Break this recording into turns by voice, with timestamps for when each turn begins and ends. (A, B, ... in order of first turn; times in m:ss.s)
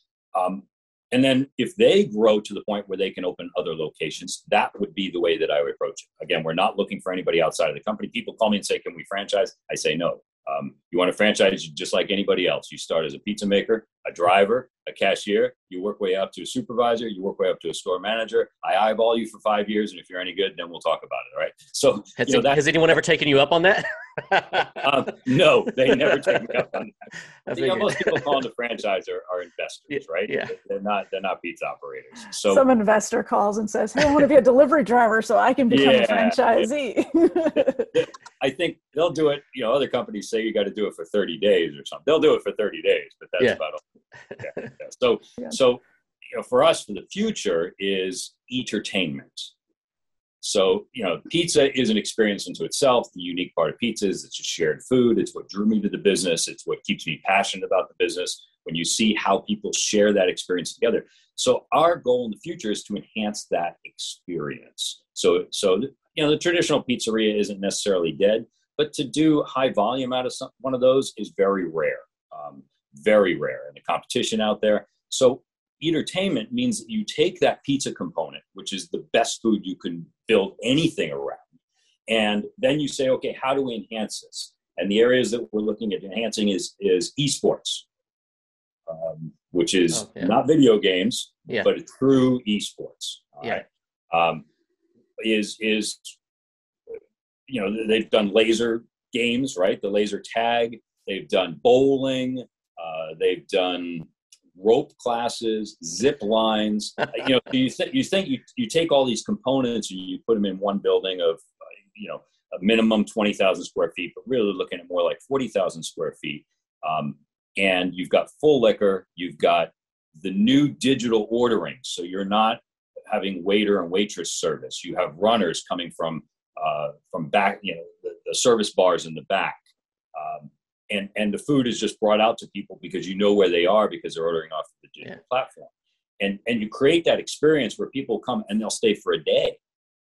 0:00.3-0:22.6 A
0:22.2-0:24.9 B
0:24.8-0:32.6 A
0:26.2-0:26.5 B
0:27.5-0:28.3 B
0:29.9-0:30.6 B
0:32.5-0:37.9 C
0:35.7-0:36.7 A
0:37.9-0:43.8 A
0:44.3-0:44.7 B
0:44.4-0:45.8 A
0:46.3-0:49.5 A
0:50.4-1:21.5 A
1:22.1-1:27.8 A
1:28.9-1:34.4 A
1:29.9-1:30.4 B
1:35.2-1:36.1 A
1:37.5-1:51.4 A
1:52.0-2:09.6 A
2:10.2-2:19.6 A